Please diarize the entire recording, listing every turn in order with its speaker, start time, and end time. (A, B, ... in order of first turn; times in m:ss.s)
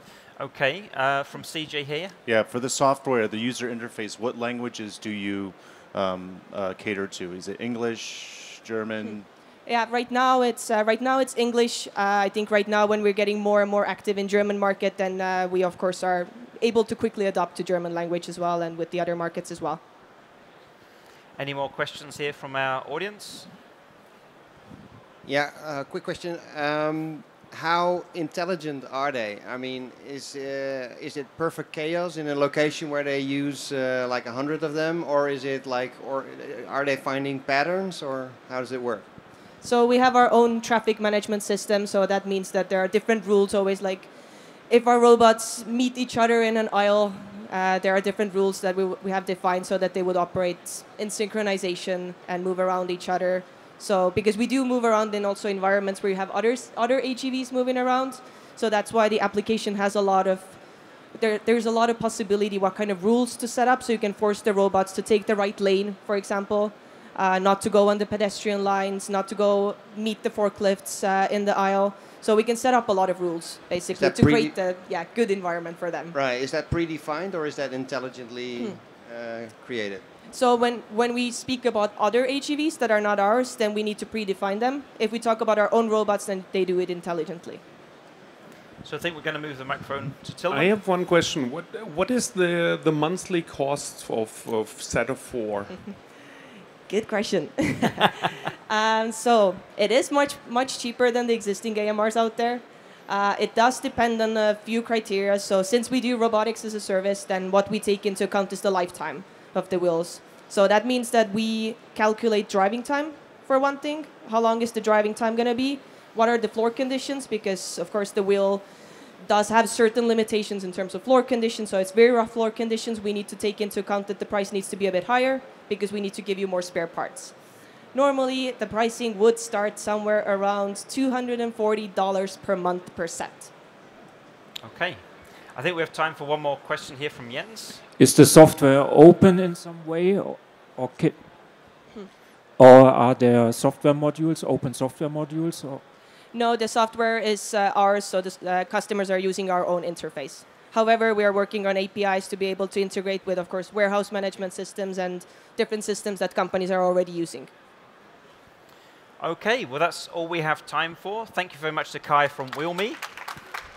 0:00.4-0:02.1 A
0:02.2-0:09.2 B
0:09.6-0:19.8 C
0:21.4-0:23.5 A
0:25.2-0:39.0 D
0:39.6-0:44.1 C
0:44.7-1:00.6 C
1:01.2-1:16.1 C
1:13.9-1:14.5 D
1:16.1-1:20.0 D
1:20.3-1:27.6 C
1:28.8-1:30.8 A
1:30.5-1:35.9 E
1:36.9-1:58.6 C
1:59.2-2:07.4 C
2:07.9-2:13.5 C
2:14.6-2:17.8 A
2:18.0-2:21.3 F
2:22.6-2:25.8 F
2:26.3-2:37.5 C
2:39.2-2:43.0 A